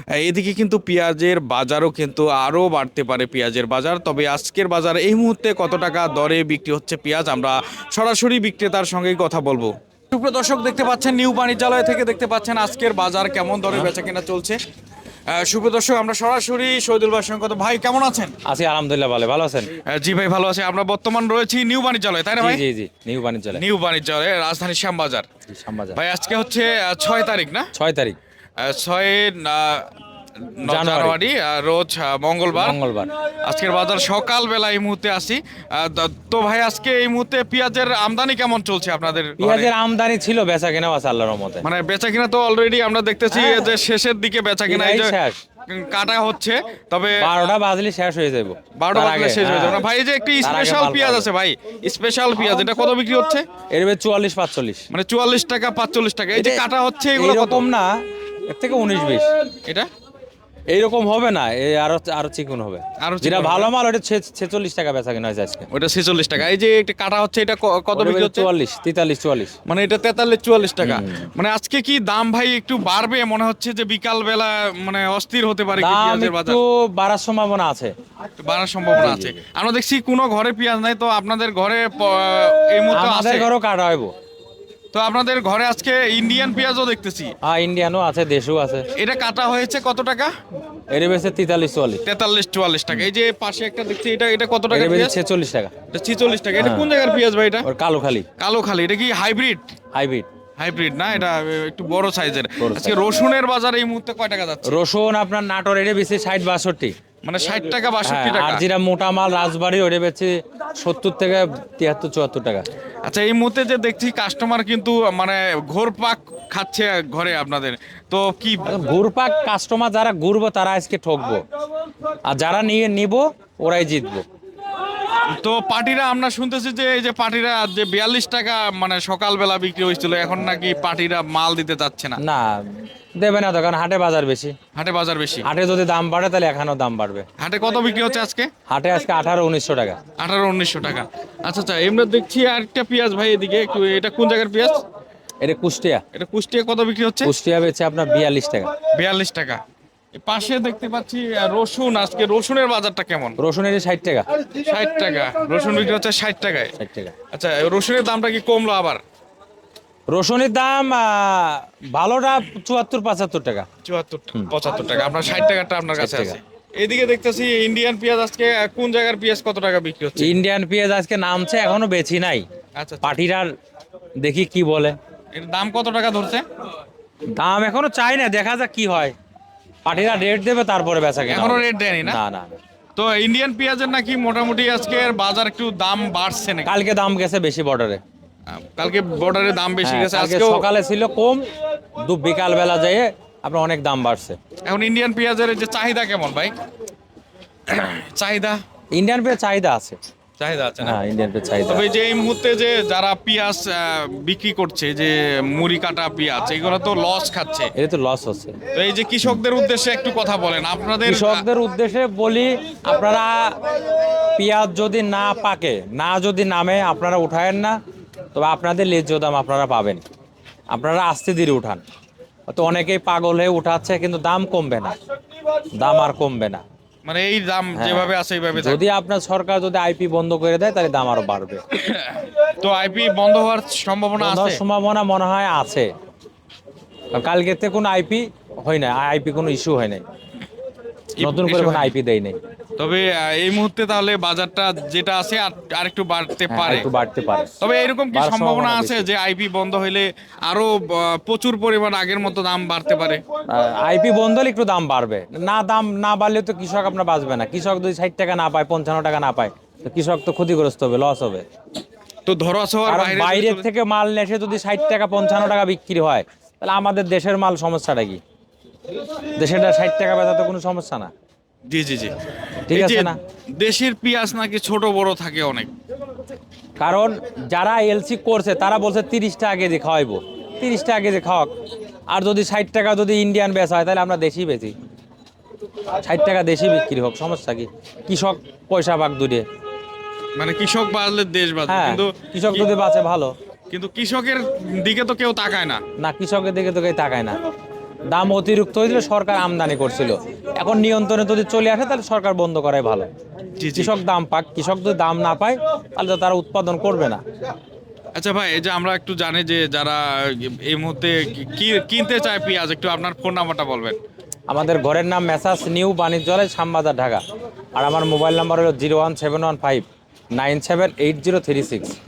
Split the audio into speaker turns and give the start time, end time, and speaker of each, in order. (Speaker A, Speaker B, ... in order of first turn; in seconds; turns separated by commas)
Speaker A: 0.1-14.6, Speaker A: 15.3-18.3, Speaker B: 18.4-19.7, Speaker A: 19.9-22.6, Speaker B: 22.4-23.6, Speaker A: 23.5-25.3, Speaker B: 25.5-26.0, Speaker A: 25.9-27.7, Speaker B: 27.7-28.2, Speaker A: 28.6-29.9, Speaker A: 30.6-32.8, Speaker B: 30.6-31.2, Speaker B: 32.5-33.1, Speaker A: 33.4-39.7, Speaker B: 39.4-41.6, Speaker A: 41.6-45.1, Speaker B: 43.3-43.7, Speaker B: 44.7-45.4, Speaker A: 45.7-47.3, Speaker B: 47.2-49.8, Speaker A: 48.8-53.4, Speaker B: 50.4-51.3, Speaker B: 53.7-54.9, Speaker A: 54.9-57.6, Speaker B: 56.3-56.6, Speaker B: 57.1-57.9, Speaker B: 58.5-59.3, Speaker B: 60.7-65.7, Speaker A: 63.0-63.7, Speaker A: 65.7-68.5, Speaker B: 67.9-69.5, Speaker A: 69.7-76.6, Speaker B: 70.8-71.3, Speaker B: 75.8-77.9, Speaker A: 78.4-83.5, Speaker B: 79.0-79.4, Speaker B: 82.9-84.1, Speaker A: 84.9-87.3, Speaker B: 87.4-88.8, Speaker A: 88.9-90.3, Speaker B: 90.9-92.0, Speaker A: 92.0-95.1, Speaker B: 94.7-95.7, Speaker A: 95.9-97.7, Speaker B: 96.6-96.9, Speaker B: 97.6-98.2, Speaker A: 98.4-99.7, Speaker B: 99.9-100.3, Speaker A: 100.6-104.8, Speaker B: 102.6-103.0, Speaker B: 104.7-106.9, Speaker A: 107.2-108.6, Speaker B: 108.0-112.7, Speaker A: 113.0-118.7, Speaker B: 118.7-121.4, Speaker B: 122.3-124.2, Speaker A: 125.3-132.2, Speaker B: 132.2-134.5, Speaker A: 134.7-135.4, Speaker B: 135.4-137.3, Speaker A: 137.4-138.5, Speaker B: 138.7-140.0, Speaker A: 140.2-144.8, Speaker B: 145.4-146.0, Speaker A: 146.1-147.3, Speaker B: 147.2-148.7, Speaker A: 148.9-149.6, Speaker A: 150.1-153.3, Speaker B: 153.4-154.2, Speaker A: 154.6-156.7, Speaker B: 156.8-157.1, Speaker A: 157.3-159.0, Speaker B: 160.1-163.7, Speaker A: 163.8-170.4, Speaker B: 165.9-166.4, Speaker B: 170.2-172.4, Speaker A: 172.7-173.2, Speaker B: 173.0-173.5, Speaker B: 174.2-174.9, Speaker A: 175.3-176.4, Speaker B: 177.3-179.1, Speaker B: 179.8-182.6, Speaker A: 181.3-182.2, Speaker A: 182.9-186.7, Speaker B: 186.7-188.0, Speaker A: 188.5-190.7, Speaker B: 189.8-191.5, Speaker B: 192.0-194.4, Speaker A: 194.6-196.5, Speaker A: 197.7-198.6, Speaker B: 198.9-200.0, Speaker A: 200.4-201.0, Speaker B: 200.8-201.8, Speaker A: 201.7-207.7, Speaker B: 207.7-208.6, Speaker A: 208.7-211.4, Speaker B: 211.0-213.6, Speaker B: 214.3-217.8, Speaker B: 218.3-220.0, Speaker B: 220.7-221.8, Speaker B: 222.5-224.9, Speaker B: 225.8-226.6, Speaker A: 227.0-228.8, Speaker B: 227.8-231.6, Speaker A: 231.8-234.6, Speaker B: 234.2-235.9, Speaker B: 237.1-240.0, Speaker A: 241.2-241.9, Speaker B: 241.2-242.4, Speaker A: 242.8-246.9, Speaker B: 246.5-247.5, Speaker A: 247.6-253.2, Speaker B: 248.1-249.1, Speaker B: 253.5-261.4, Speaker A: 262.2-263.7, Speaker B: 262.9-268.2, Speaker B: 269.4-271.1, Speaker A: 271.7-272.1, Speaker B: 272.7-273.2, Speaker A: 272.7-275.7, Speaker B: 276.8-281.5, Speaker B: 282.1-284.7, Speaker B: 286.0-289.4, Speaker A: 290.4-292.7, Speaker B: 291.7-293.3, Speaker A: 293.7-295.8, Speaker B: 296.0-297.4, Speaker B: 298.1-303.1, Speaker A: 303.6-303.9, Speaker B: 303.7-307.2, Speaker A: 308.1-314.0, Speaker B: 314.5-317.2, Speaker B: 317.7-321.9